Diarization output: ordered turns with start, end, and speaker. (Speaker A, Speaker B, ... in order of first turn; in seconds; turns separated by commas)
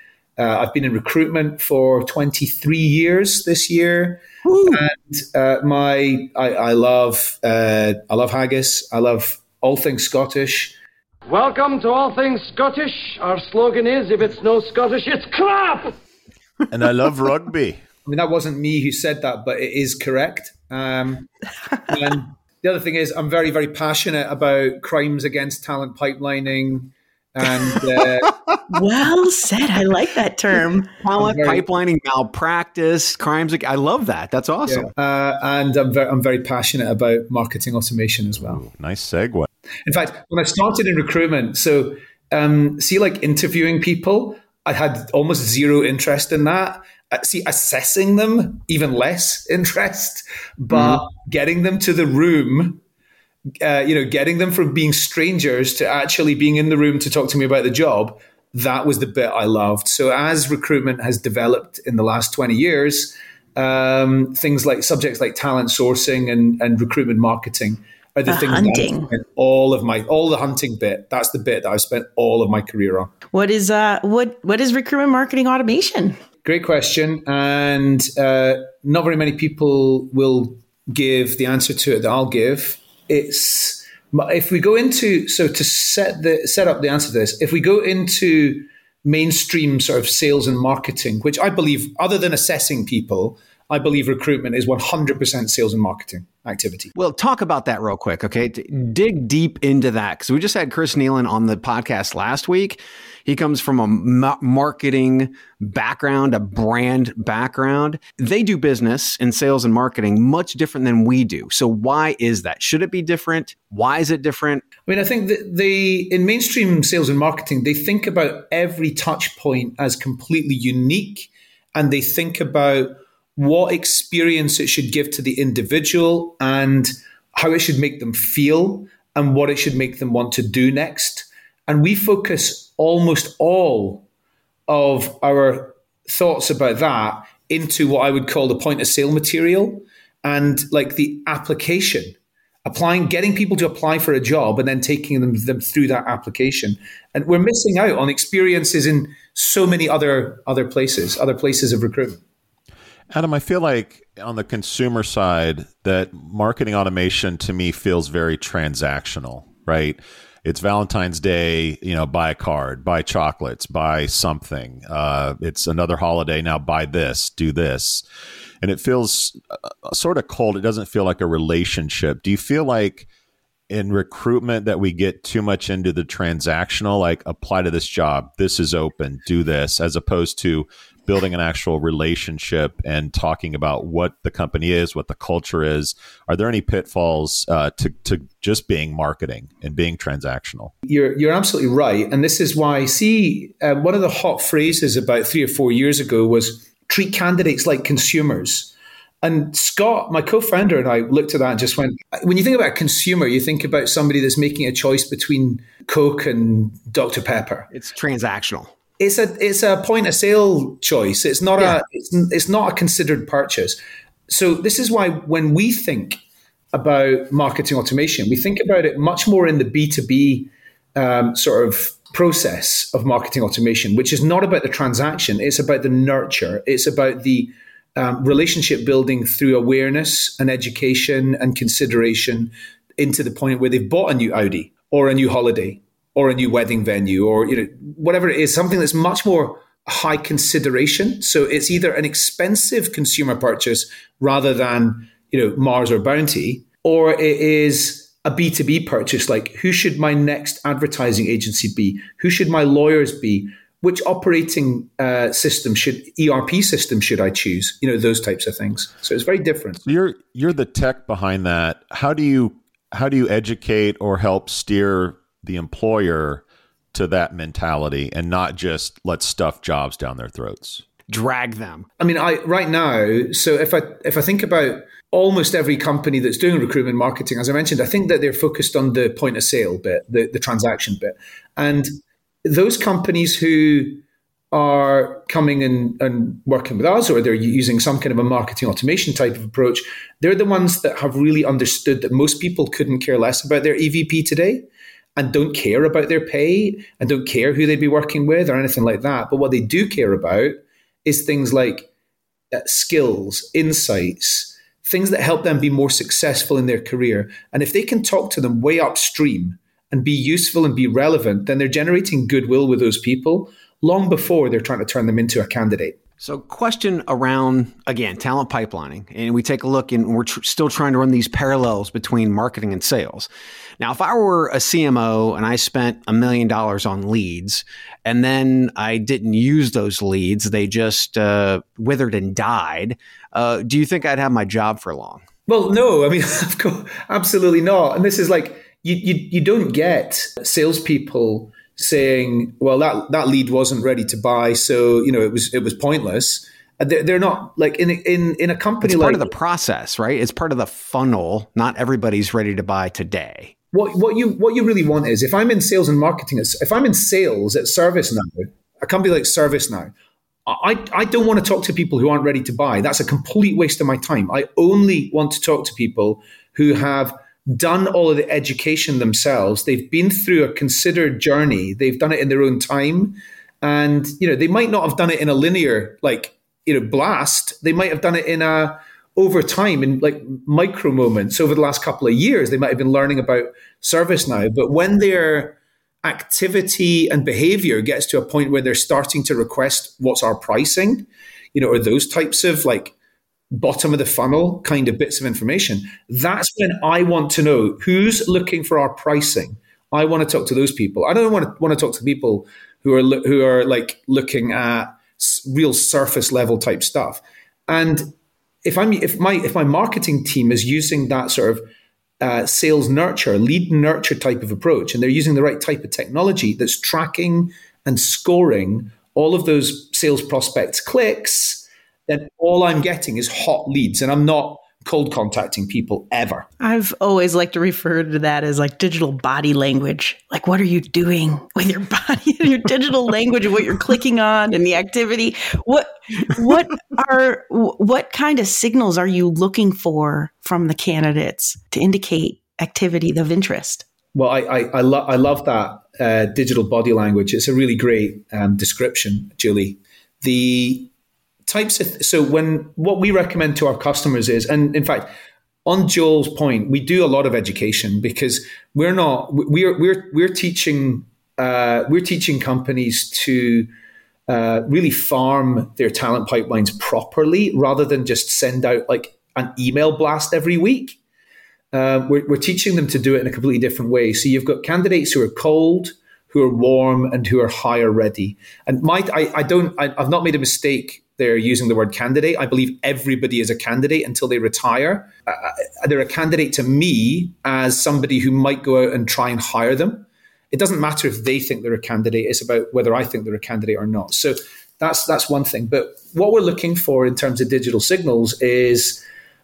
Speaker A: 0.4-10.8, Speaker B: 4.4-4.8, Speaker C: 11.3-16.0, Speaker D: 16.7-17.8, Speaker A: 18.1-21.3, Speaker A: 21.9-28.3, Speaker E: 28.7-30.9, Speaker B: 31.0-34.9, Speaker A: 31.2-31.7, Speaker A: 34.7-38.6, Speaker D: 38.5-39.5, Speaker A: 39.9-52.8, Speaker B: 50.7-51.0, Speaker A: 53.6-73.1, Speaker E: 68.3-69.1, Speaker E: 73.3-76.2, Speaker A: 76.4-96.9, Speaker B: 97.0-114.7, Speaker A: 114.9-134.0, Speaker A: 134.7-152.2, Speaker D: 153.1-168.0, Speaker D: 168.6-173.1, Speaker D: 173.7-190.7, Speaker A: 190.9-207.7, Speaker B: 207.7-208.7, Speaker A: 209.0-216.2, Speaker A: 216.7-259.8, Speaker D: 259.9-270.8, Speaker B: 271.1-271.9, Speaker A: 272.0-301.9, Speaker A: 302.5-316.0, Speaker B: 316.2-323.3, Speaker B: 323.8-335.2, Speaker A: 335.5-349.3, Speaker B: 348.8-353.5, Speaker A: 353.7-359.9, Speaker A: 360.4-392.9, Speaker A: 393.5-411.6, Speaker A: 412.2-426.5, Speaker E: 426.6-443.9, Speaker A: 444.1-450.9, Speaker A: 451.5-455.1, Speaker A: 455.6-463.7, Speaker A: 464.3-471.0, Speaker A: 471.7-499.0